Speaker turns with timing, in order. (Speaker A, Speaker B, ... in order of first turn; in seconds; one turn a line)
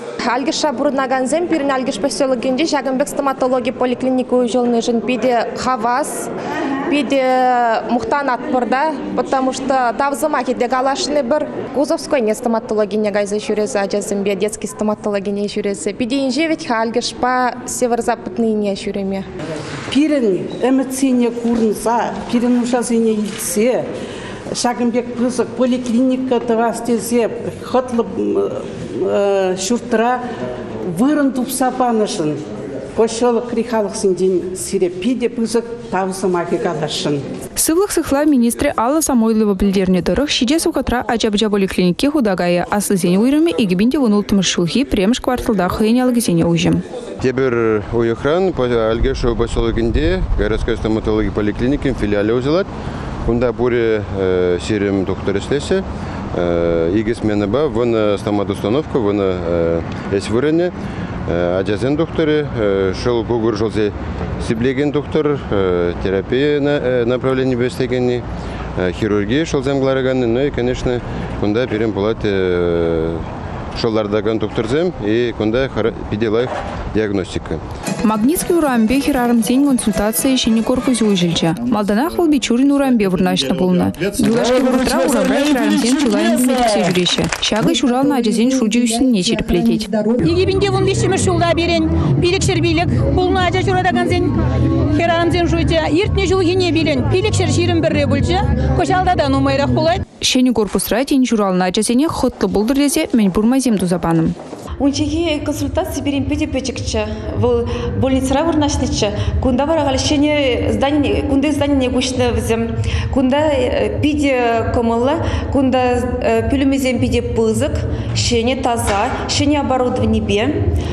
Speaker A: 0.2-6.3
Speaker A: 6.9-19.2
Speaker B: 19.9-23.9
Speaker B: 24.5-30.2
Speaker B: 30.9-32.4
Speaker B: 33.0-37.2
Speaker C: 37.6-46.8
Speaker D: 47.2-52.7
Speaker D: 53.3-60.7
Speaker D: 61.3-68.2
Speaker D: 68.8-77.6
Speaker C: 78.0-89.9
Speaker E: 90.2-94.4
Speaker E: 94.9-100.0
Speaker C: 100.2-104.3
Speaker F: 104.8-120.5